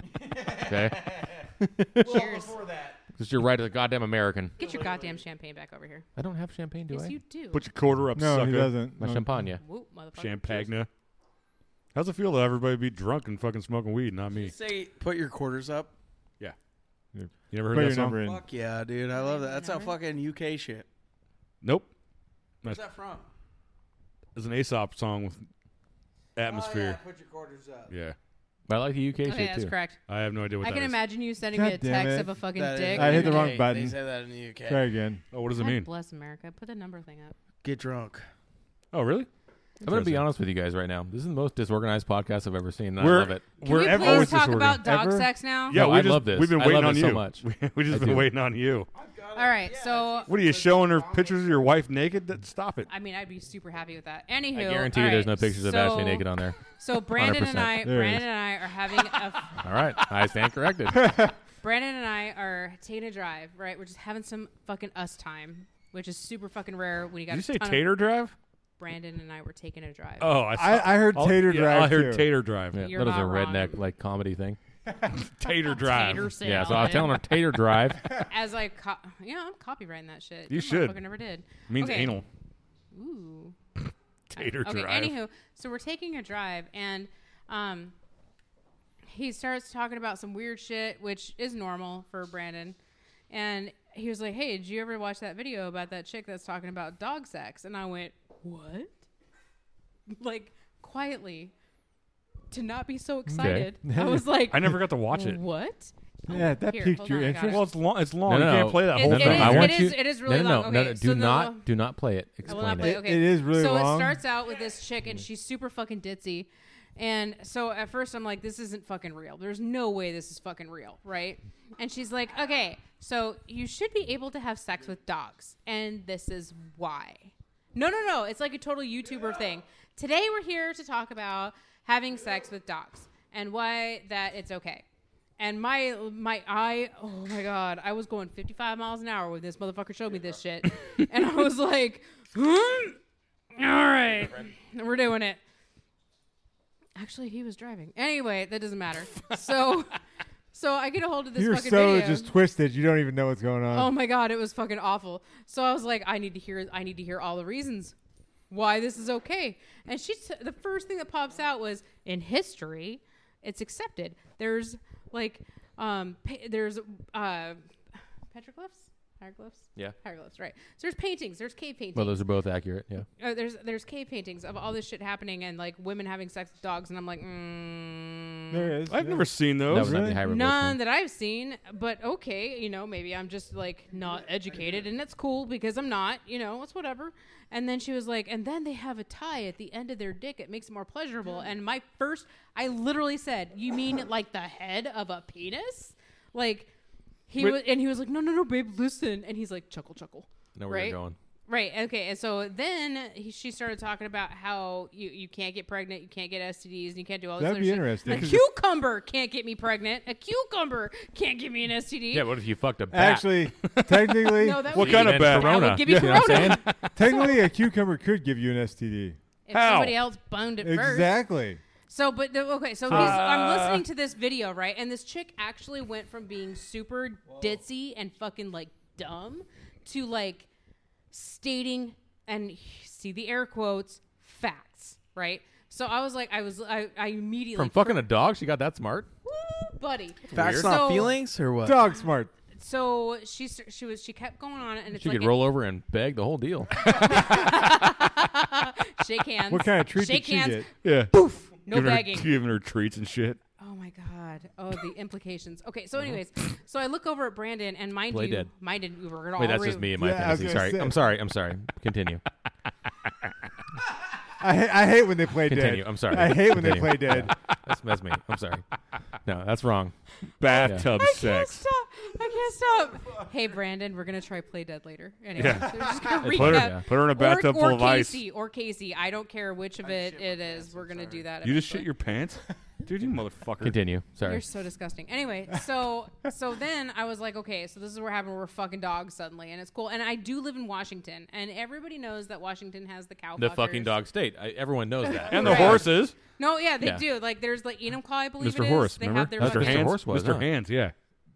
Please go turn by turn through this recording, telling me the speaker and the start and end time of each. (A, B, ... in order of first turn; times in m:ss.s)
0:00.2-0:01.3 A
0:00.5-0:02.2 B
0:02.0-0:03.0 A
0:02.1-0:02.6 C
0:03.2-0:04.6 B
0:04.6-0:05.2 A
0:04.6-0:06.1 C
0:06.2-0:07.2 B
0:06.9-0:07.6 C
0:07.5-0:08.8 D
0:08.2-0:09.4 E
0:09.0-0:09.6 B
0:09.6-0:10.7 C
0:10.2-0:10.9 D
0:11.9-0:14.6 D
0:14.3-0:15.9 A
0:17.1-0:18.4 E
0:17.5-0:18.2 D
0:18.2-0:20.9 A
0:19.1-0:20.0 C
0:21.6-0:21.9 D
0:22.6-0:23.3 A
0:24.4-0:25.4 D
0:26.4-0:27.0 D
0:26.4-0:27.9 A
0:27.9-0:28.2 D
0:28.7-0:29.7 B
0:29.3-0:30.0 C
0:30.1-0:31.0 D
0:30.6-0:33.6 C
0:31.5-0:32.3 E
0:32.6-0:34.8 A
0:32.9-0:34.0 E
0:34.6-0:35.2 E
0:35.3-0:35.9 D
0:35.5-0:37.3 C
0:37.6-0:38.3 A
0:38.9-0:39.3 D
0:39.8-0:40.3 D
0:39.8-0:43.6 B
0:43.0-0:44.8 D
0:43.6-0:45.8 C
0:43.6-0:45.3 E
0:45.7-0:48.9 D
0:45.7-0:48.3 B
0:48.9-0:51.7 A
0:49.3-0:50.3 C
0:50.3-0:52.9 D
0:52.9-0:59.6 C
0:54.5-0:57.8 B
0:57.8-0:58.3 E
0:59.6-1:01.2 B
1:00.9-1:01.3 E
1:01.6-1:07.9 C
1:07.3-1:08.4 D
1:08.8-1:10.4 C
1:10.2-1:12.9 D
1:10.6-1:12.3 E
1:12.7-1:14.6 B
1:12.8-1:13.8 C
1:15.1-1:16.4 D
1:15.5-1:17.2 C
1:16.4-1:18.0 B
1:18.3-1:22.2 C
1:20.5-1:21.0 D
1:21.7-1:22.3 D
1:22.9-1:23.6 C
1:24.3-1:25.2 D
1:24.3-1:28.0 C
1:29.1-1:32.8 C
1:33.3-1:38.9 C
1:40.1-1:41.5 C
1:42.5-1:47.7 C
1:43.3-1:43.7 B
1:43.8-1:44.8 E
1:44.5-1:45.4 D
1:46.3-1:47.7 E
1:47.5-1:49.8 D
1:48.3-1:53.0 B
1:48.9-1:51.7 C
1:52.4-2:14.8 C
1:52.6-1:54.2 E
2:15.4-2:23.0 C
2:23.5-2:25.4 C
2:27.0-2:30.0 C
2:30.5-2:32.3 C
2:31.4-2:33.9 E
2:33.7-2:38.0 C
2:38.5-2:47.6 C
2:48.3-2:52.2 C
2:52.0-2:53.1 B
2:53.2-2:58.8 C
2:58.5-3:00.2 E
2:58.9-3:00.0 D
2:59.7-3:00.8 B
3:00.2-3:16.7 C
3:17.3-3:32.3 C
3:20.6-3:21.2 B
3:27.4-3:28.4 E
3:32.1-3:33.4 B
3:32.9-3:34.7 E
3:34.2-3:37.5 C
3:34.7-3:35.8 D
3:34.7-3:36.7 B
3:35.9-3:39.2 E
3:39.5-3:41.2 C
3:39.5-3:40.0 D
3:40.6-3:41.6 E
3:41.9-3:50.5 C
3:42.9-3:43.8 D
3:42.9-3:43.2 E
3:51.1-3:58.1 C
3:57.6-3:59.1 B
3:59.2-4:01.1 C
4:00.3-4:01.1 B
4:00.3-4:01.9 A
4:01.6-4:02.3 E
4:02.6-4:05.4 C
4:05.0-4:07.1 B
4:06.8-4:12.3 C
4:09.5-4:10.7 E
4:10.8-4:11.2 D
4:11.7-4:13.4 D
4:13.6-4:19.9 C
4:18.1-4:18.5 B
4:19.4-4:22.2 B
4:20.0-4:21.0 E
4:24.4-4:27.3 E
4:25.5-4:28.7 B
4:29.2-4:30.0 B
4:30.4-4:31.6 D
4:30.4-4:41.9 C
4:35.4-4:38.2 D
4:36.2-4:36.9 B
4:39.8-4:41.3 A
4:41.4-4:43.8 D
4:43.6-4:44.4 B
4:44.2-4:54.0 C
4:53.4-4:55.9 B
4:55.0-5:00.0 C
4:55.3-4:56.2 D
4:58.4-5:00.9 D
4:59.4-5:00.5 B